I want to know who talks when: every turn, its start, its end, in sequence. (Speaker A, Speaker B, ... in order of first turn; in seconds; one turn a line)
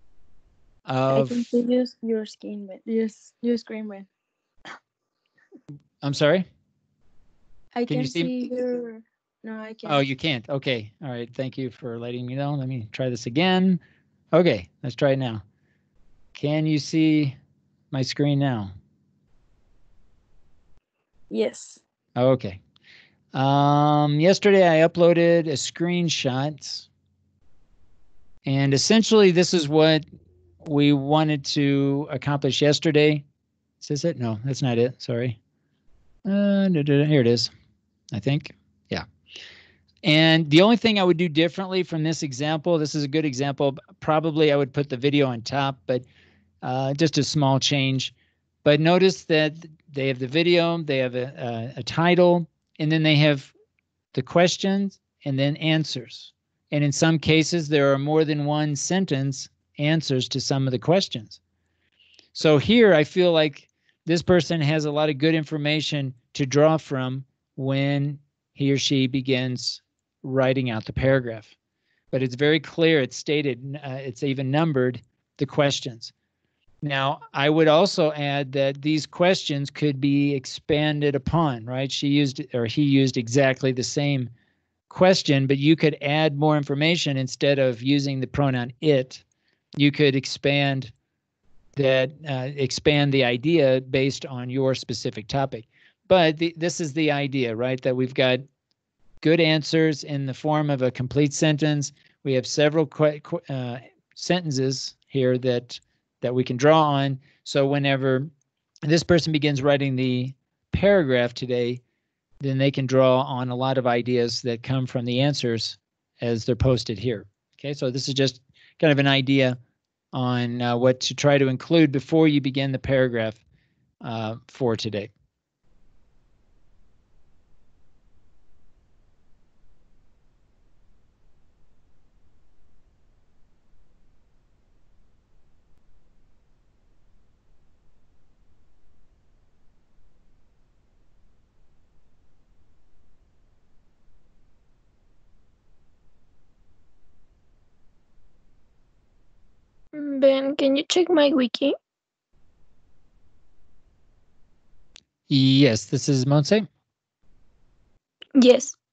Speaker A: 0.9-1.5
Speaker B: 1.1-4.1
Speaker A: 6.0-6.5
Speaker B: 7.8-10.1
Speaker A: 7.9-8.3
Speaker A: 9.8-13.8
Speaker A: 14.3-15.4
Speaker A: 16.4-17.4
Speaker A: 17.9-18.7
Speaker B: 21.3-21.8
Speaker A: 22.2-22.6
Speaker A: 23.3-26.9
Speaker A: 28.5-30.0
Speaker A: 30.6-33.2
Speaker A: 33.8-35.4
Speaker A: 36.3-37.5
Speaker A: 38.1-39.0
Speaker A: 40.0-46.0
Speaker A: 46.6-48.1
Speaker A: 48.6-53.5
Speaker A: 54.1-61.4
Speaker A: 62.4-71.5
Speaker A: 72.1-76.1
Speaker A: 76.8-84.3
Speaker A: 84.9-89.2
Speaker A: 89.8-90.9
Speaker A: 91.8-98.5
Speaker A: 99.2-108.3
Speaker A: 108.9-111.8
Speaker A: 112.4-119.6
Speaker A: 120.1-123.4
Speaker A: 124.0-125.1
Speaker C: 149.9-151.8
Speaker A: 155.3-156.7
Speaker C: 158.4-158.8